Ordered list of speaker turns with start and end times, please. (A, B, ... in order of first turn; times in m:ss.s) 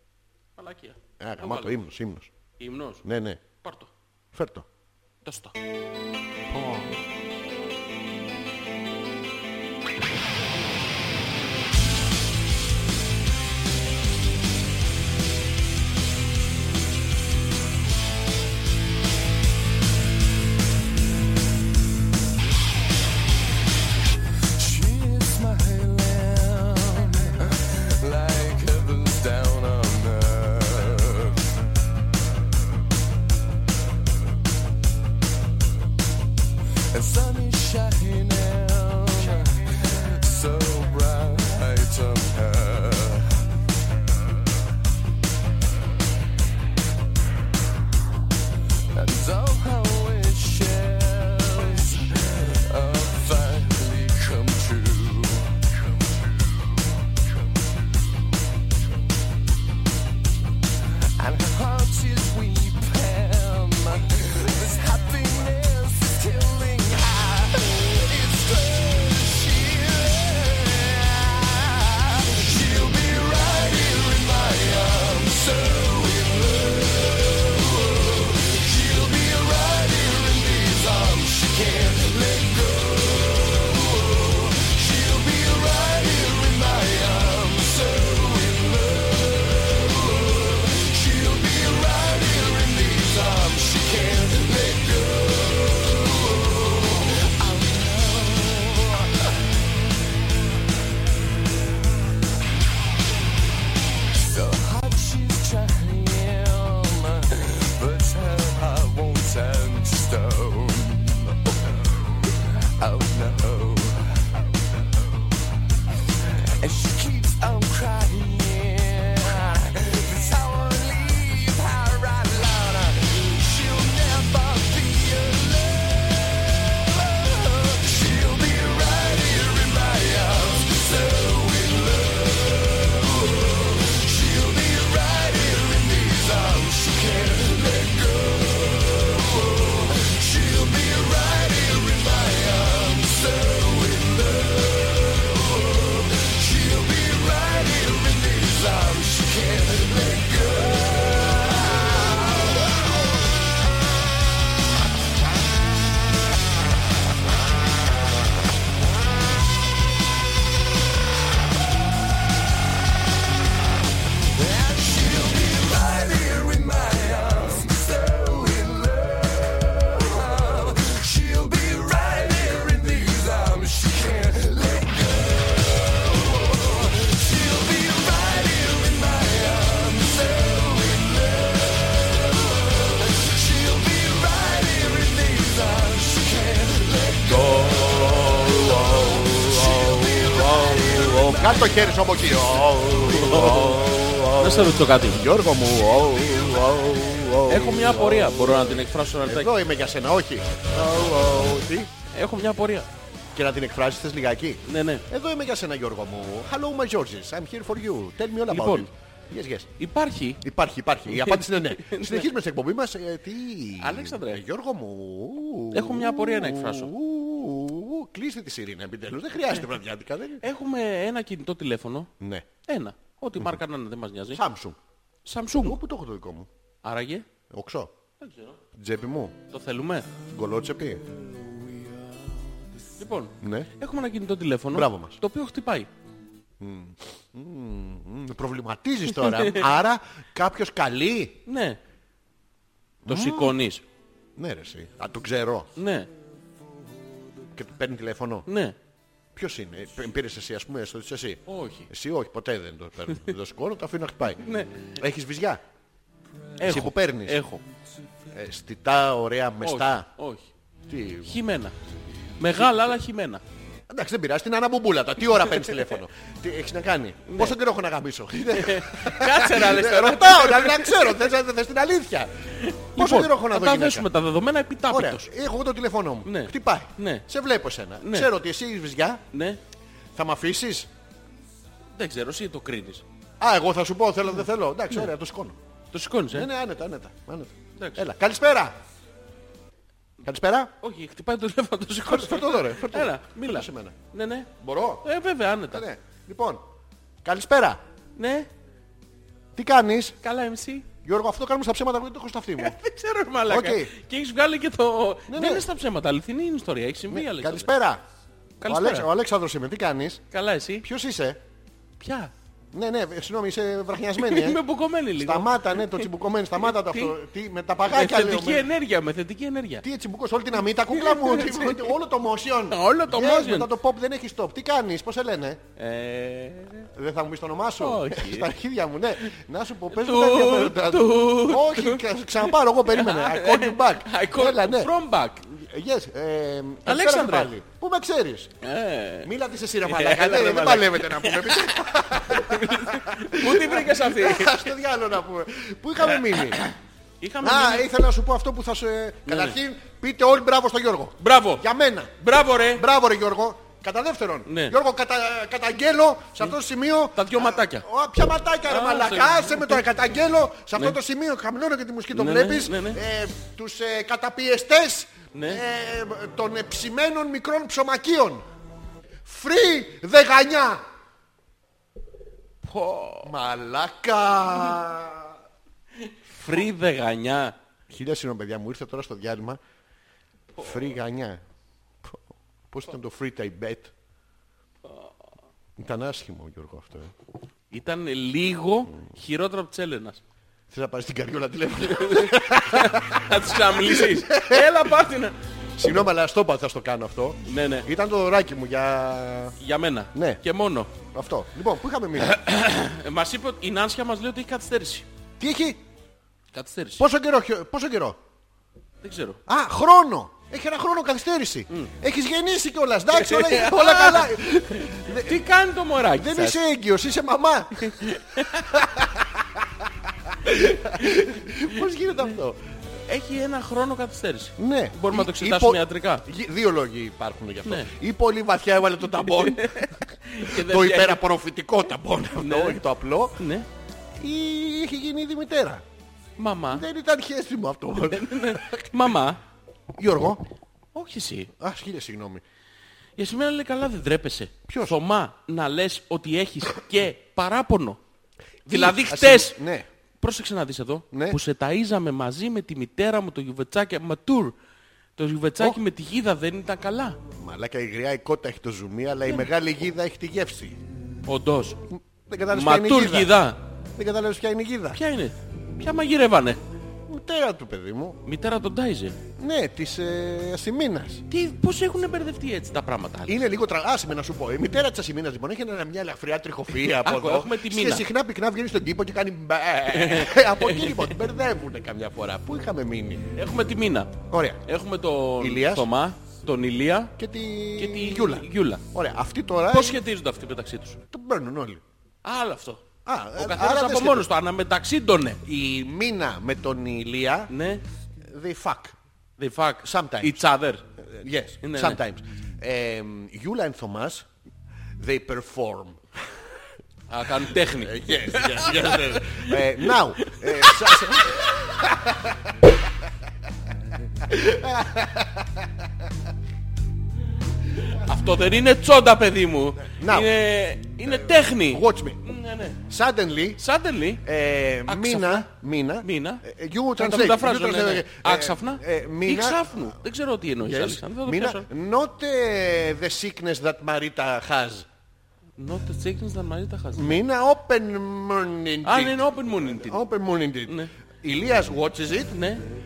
0:00.6-0:01.8 A
0:01.2-0:02.3 B
0:02.6-0:03.0 A
0:03.0-0:03.4 B
0:03.6-0:03.9 A
0:04.3-0:04.7 B
0:05.2-0:05.6 A
0:06.5-0:07.0 B
0:24.5-0:31.4 C
0:36.9-0:43.4 C
0:48.9-0:55.6 C
1:01.2-1:39.3 C
1:44.2-1:54.3 C
1:56.4-2:32.8 C
2:44.3-3:11.9 C
3:08.9-3:21.9 B
3:13.0-3:15.3 A
3:17.5-3:19.5 A
3:22.1-3:22.9 A
3:23.4-3:29.7 B
3:24.6-3:25.1 A
3:28.5-3:28.9 A
3:29.8-3:30.4 A
3:30.4-3:40.4 B
3:31.1-3:32.3 A
3:33.8-3:34.4 A
3:35.7-3:36.9 A
3:40.4-3:42.1 A
3:42.2-3:42.5 B
3:42.6-3:44.4 A
3:44.3-3:44.8 B
3:45.2-3:45.8 A
3:45.5-3:46.5 B
3:46.8-3:47.2 A
3:47.5-3:47.9 B
3:48.2-3:48.6 A
3:48.7-3:49.4 B
3:49.5-3:50.1 A
3:50.3-3:51.0 B
3:53.0-3:55.9 A
3:53.4-3:53.7 B
3:54.7-3:55.2 B
3:56.6-4:01.4 B
3:59.2-3:59.6 A
4:01.5-4:01.8 A
4:03.1-4:03.6 B
4:03.1-4:03.8 A
4:04.4-4:05.7 B
4:05.8-4:06.1 A
4:07.6-4:08.5 B
4:08.5-4:08.8 A
4:09.4-4:14.4 B
4:11.5-4:11.9 A
4:14.4-4:14.9 A
4:15.0-4:15.6 B
4:16.6-4:17.6 A
4:16.6-4:17.4 B
4:18.3-4:20.1 B
4:19.6-4:20.5 A
4:20.9-4:21.3 B
4:21.2-4:21.7 A
4:22.4-4:23.4 A
4:23.9-4:32.3 B
4:27.3-4:27.6 A
4:28.5-4:31.3 A
4:32.6-4:35.3 A
4:33.0-4:34.1 B
4:34.9-4:39.2 B
4:36.2-4:37.2 A
4:38.0-4:38.3 A
4:39.3-4:39.6 A
4:40.2-4:40.9 B
4:41.9-4:43.0 A
4:43.4-4:45.6 B
4:45.9-4:46.5 A
4:46.3-4:48.8 B
4:47.8-4:48.1 A
4:50.2-4:50.7 B
4:50.8-4:54.5 A
4:52.0-4:54.0 B
4:54.6-4:55.0 B
4:55.0-4:55.8 A
4:55.7-4:56.6 B
4:57.2-4:57.8 B
4:58.2-4:58.5 A
4:59.6-5:00.2 B
5:00.2-5:00.9 A
5:01.0-5:02.8 B
5:02.6-5:07.7 A
5:03.5-5:03.9 B
5:05.3-5:05.7 B
5:07.1-5:08.0 B
5:08.6-5:09.1 A
5:08.6-5:10.2 B
5:10.3-5:10.9 A
5:10.8-5:11.4 B
5:12.0-5:12.3 A
5:12.7-5:14.6 B
5:14.2-5:17.2 A
5:15.2-5:18.7 B
5:17.8-5:19.8 A
5:19.8-5:25.6 B
5:20.9-5:21.9 A
5:22.7-5:23.7 A
5:25.8-5:26.9 A
5:26.9-5:34.9 B
5:27.8-5:28.5 A
5:29.9-5:35.5 A
5:35.5-5:38.5 B
5:36.9-5:37.5 A
5:38.6-5:39.3 A
5:39.2-5:46.6 B
5:39.8-5:44.8 A
5:46.0-5:47.9 A
5:47.4-5:52.2 B
5:49.3-5:49.6 A
5:51.2-5:51.6 A
5:52.2-5:52.8 A
5:52.7-6:08.4 B
5:54.5-5:54.8 A
5:57.2-5:57.9 A
5:58.6-5:59.8 A
6:02.1-6:03.0 A
6:05.3-6:05.6 A
6:09.2-6:10.8 B
6:12.6-6:13.3 A
6:13.2-6:15.4 B
6:16.0-6:17.6 A
6:17.9-6:19.6 B
6:20.6-6:21.4 B
6:20.6-6:20.9 A
6:22.0-6:23.9 B
6:25.8-6:27.1 B
6:27.7-6:30.2 A
6:30.7-6:34.8 B
6:31.9-6:36.0 A
6:35.8-6:39.6 B
6:37.5-6:37.9 A
6:39.6-6:40.9 A
6:40.1-6:40.4 B
6:41.0-6:42.4 B
6:42.2-6:45.1 A
6:45.4-6:45.8 B
6:46.5-6:47.0 A
6:47.0-6:48.2 B
6:49.0-6:49.4 A
6:49.5-6:55.4 B
6:53.1-6:56.6 A
6:56.2-7:02.6 B
6:57.8-6:58.8 A
7:00.9-7:01.2 A
7:03.1-7:06.2 A
7:04.6-7:13.4 B
7:07.6-7:07.9 A
7:09.2-7:11.2 A
7:12.4-7:12.8 A
7:13.4-7:13.7 A
7:14.2-7:15.8 B
7:16.4-7:16.8 A
7:16.7-7:18.9 B
7:18.0-7:19.4 A
7:20.0-7:20.4 B
7:20.9-7:21.5 A
7:21.6-7:22.4 B
7:23.2-7:28.0 A
7:24.7-7:25.0 B
7:28.7-7:29.6 A
7:28.7-7:29.9 B
7:30.2-7:34.5 A
7:31.1-7:31.4 B
7:35.2-7:37.2 A
7:37.4-7:40.8 B
7:41.3-7:41.8 A
7:41.9-7:43.4 B
7:42.5-7:43.6 A
7:44.0-7:45.0 B
7:45.0-7:46.6 A
7:47.1-7:48.2 B
7:48.2-7:49.2 A
7:49.4-7:51.2 B
7:51.3-7:53.5 A
7:53.3-8:03.3 B
7:56.8-7:58.1 A
7:59.9-8:01.2 A
8:03.4-8:07.2 A
8:04.3-8:04.6 B
8:05.4-8:05.9 B
8:07.2-8:10.0 B
8:07.8-8:08.8 A
8:09.7-8:11.0 A
8:11.1-8:11.8 B
8:12.2-8:12.8 A
8:13.0-8:14.3 B
8:13.4-8:15.4 A
8:15.4-8:17.5 B
8:17.5-8:17.8 A
8:18.2-8:19.0 B
8:19.4-8:20.8 A
8:19.8-8:20.4 B
8:21.0-8:24.3 B
8:21.6-8:22.0 A
8:25.0-8:26.0 B
8:27.1-8:31.5 A
8:27.5-8:32.6 B
8:34.2-8:35.9 B
8:37.9-8:42.8 A
8:39.9-8:40.3 B
8:41.2-8:42.2 B
8:42.9-8:43.6 B
8:43.6-8:44.2 A
8:44.2-8:49.9 B
8:44.9-8:45.5 A
8:46.0-8:46.4 A
8:47.0-8:51.7 A
8:50.6-8:54.9 B
8:55.6-8:57.2 A
8:56.9-9:02.4 B
8:58.8-9:00.0 A
9:00.7-9:00.9 A
9:02.3-9:02.6 A